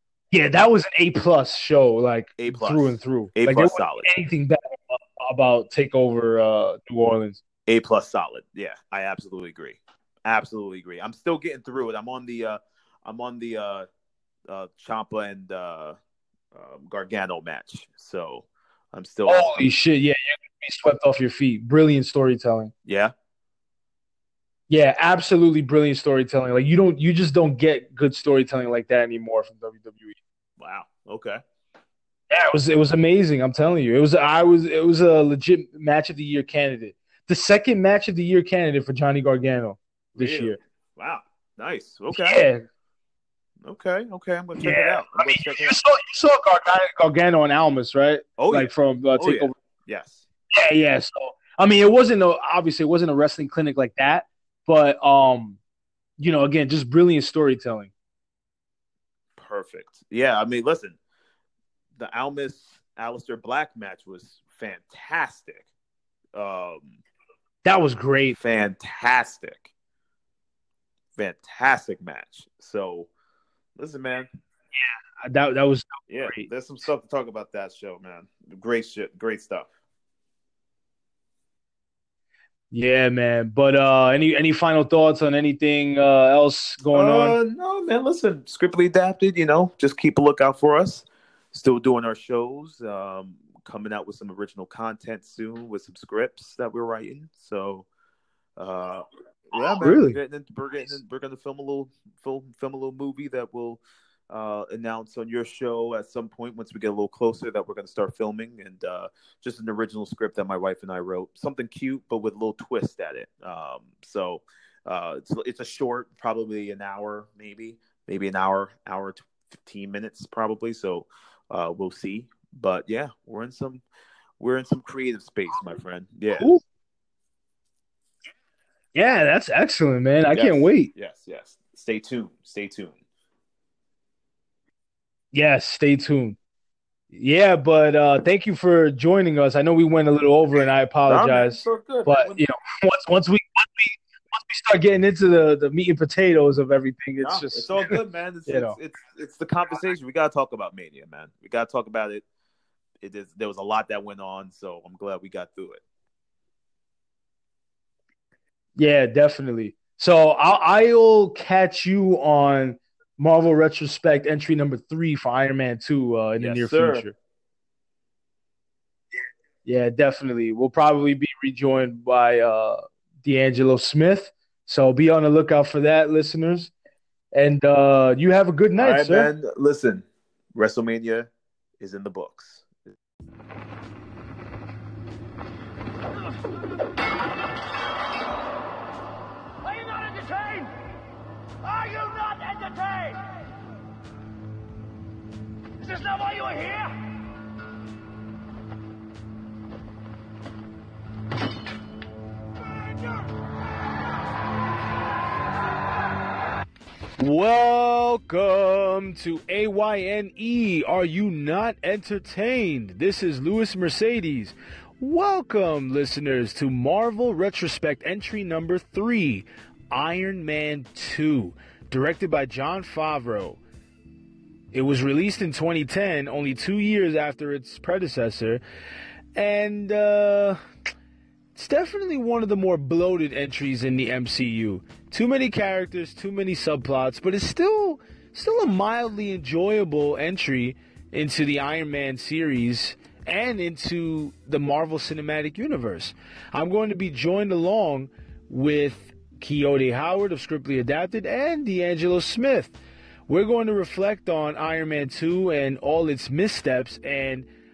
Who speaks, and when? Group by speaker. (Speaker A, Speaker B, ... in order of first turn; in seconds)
Speaker A: 0.3-7.4, 19.3-22.7, 24.7-30.2, 32.3-40.6, 42.1-42.6, 44.6-49.5, 50.5-55.6, 56.2-57.9, 67.6-68.4, 74.7-76.5, 82.7-87.4, 99.7-100.2, 126.3-126.6, 128.9-130.9, 135.3-136.4, 137.1-148.8, 158.8-167.1, 169.6-176.7, 177.3-179.3, 207.2-223.6, 224.7-228.6, 229.3-230.6, 231.5-252.8, 253.3-257.5
Speaker B: 2.4-4.1, 7.7-13.9, 14.5-16.0, 16.5-19.6, 22.8-23.1, 30.6-31.4, 40.1-42.5, 43.6-45.8, 48.4-50.2, 59.4-61.0, 62.0-65.7, 66.3-67.0, 68.3-69.7, 71.2-73.1, 73.8-74.3, 76.1-79.7, 86.9-97.9, 98.6-123.8, 124.4-126.5, 130.3-133.0, 141.1-142.4, 147.2-152.2, 153.0-155.8, 166.4-167.1, 178.8-181.3, 181.8-182.9
Speaker C: 189.6-190.7, 191.6-193.4, 195.8-197.0